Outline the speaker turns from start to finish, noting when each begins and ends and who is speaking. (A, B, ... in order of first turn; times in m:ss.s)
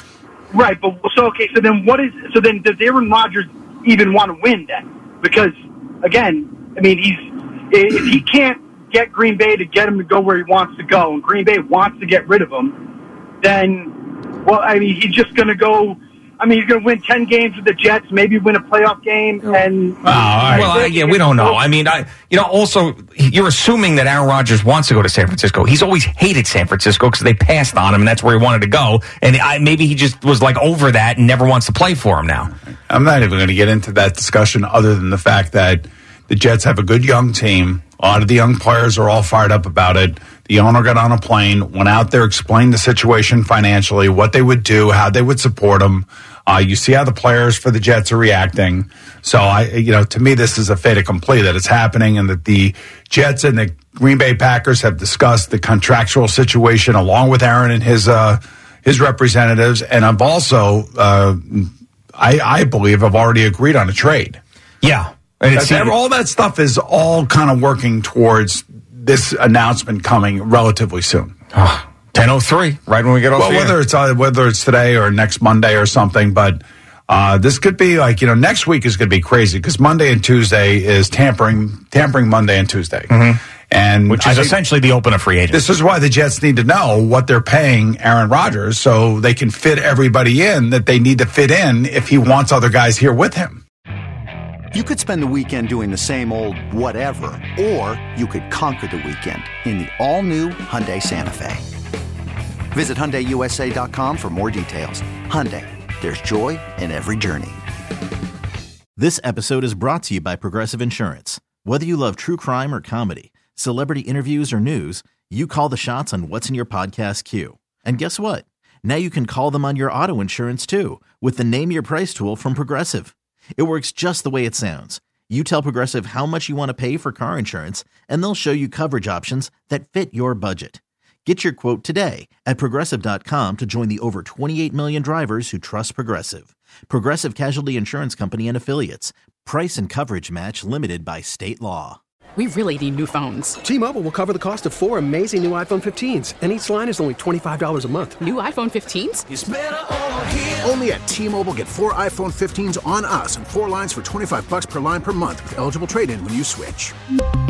0:00.5-0:12.8 A
0:13.4-0:21.6 A
0:20.0-0:20.8 B
0:20.5-0:32.5 C
0:32.9-1:04.4 B
1:04.8-1:05.9 C
1:05.5-1:11.4 B
1:11.5-1:13.8 C
1:13.4-1:23.1 B
1:23.1-1:23.4 C
1:23.7-1:24.6 B
1:24.1-1:25.6 C
1:25.5-1:33.6 B
1:34.7-1:41.6 D
1:42.7-1:47.6 D
1:49.0-2:22.0 E
2:22.4-2:23.6 F
2:23.6-2:28.2 G
2:28.2-2:29.3 F
2:29.3-2:37.0 H